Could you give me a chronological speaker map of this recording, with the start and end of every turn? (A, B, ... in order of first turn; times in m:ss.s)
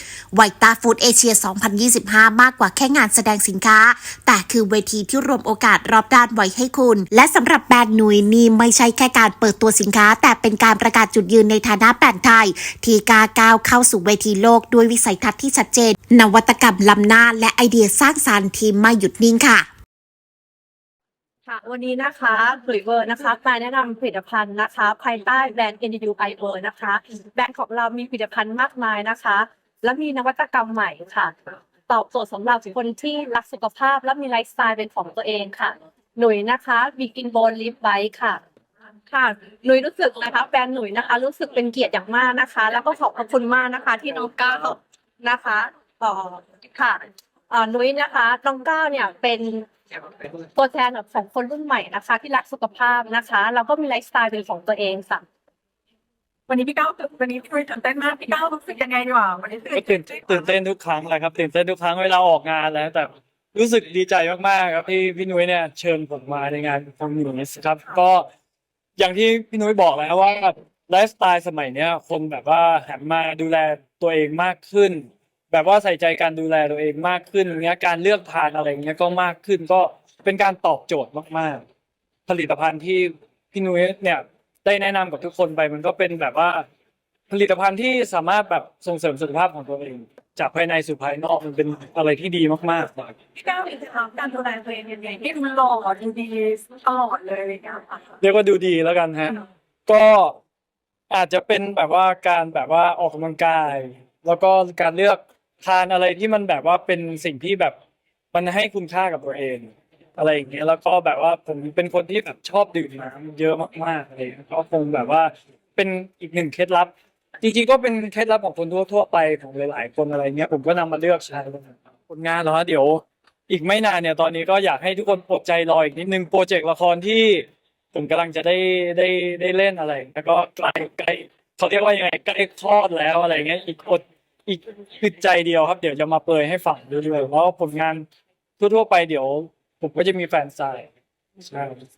0:00.3-0:19.7 A
0:21.4-0:31.3 B
0:31.9-0:38.4 B
0:39.1-0:49.7 B
0:50.5-0:55.2 B
0:56.5-1:00.1 C
0:59.7-1:08.3 D
1:09.0-1:21.6 D
1:22.3-1:26.6 D
1:27.3-1:33.2 D
1:33.4-1:38.1 C
1:38.2-1:40.4 D
1:41.1-1:47.8 D
1:48.3-2:18.1 D
2:18.6-2:20.9 D
2:21.4-2:21.8 D